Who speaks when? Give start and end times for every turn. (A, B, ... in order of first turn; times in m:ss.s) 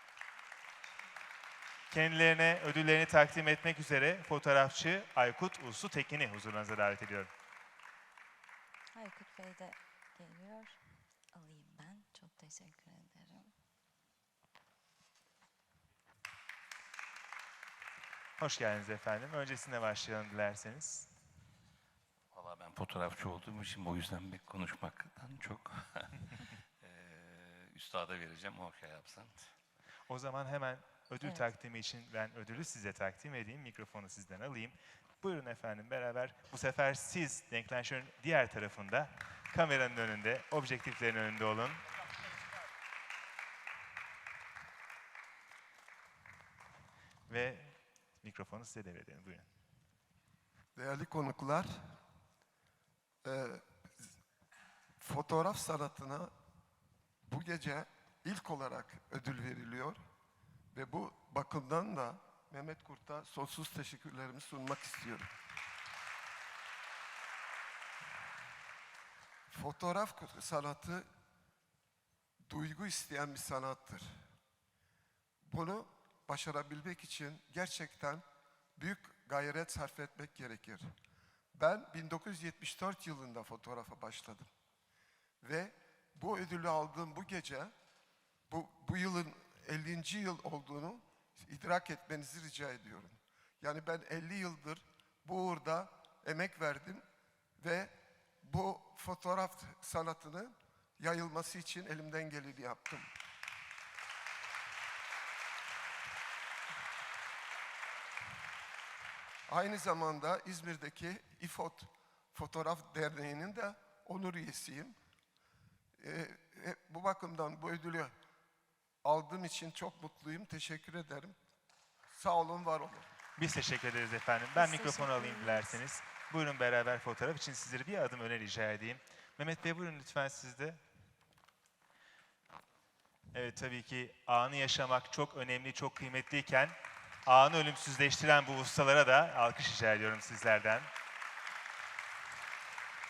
0:01.9-0:07.3 A
0:08.9-0:10.8 B
0:11.3-0:13.5 B
0:18.4-0:21.1 A
0:22.3-0:29.5 C
0:30.1-0:41.8 A
0:47.3-0:49.5 A
0:50.8-0:51.9 D
0:53.2-0:53.6 D
0:55.0-0:56.3 D
0:57.2-1:00.0 D
1:00.7-1:05.3 D
1:09.5-1:11.0 D
1:12.4-1:14.2 D
1:15.4-1:18.2 D
1:18.8-1:20.9 D
1:21.5-1:24.5 D
1:25.4-1:27.7 D
1:28.5-1:37.0 D
1:37.6-1:43.1 D
1:49.5-1:55.0 D
1:56.0-1:58.1 D
1:59.0-2:01.4 D
2:02.1-2:03.1 D
2:03.4-2:10.8 A
2:04.6-2:05.8 B
2:13.3-2:20.9 A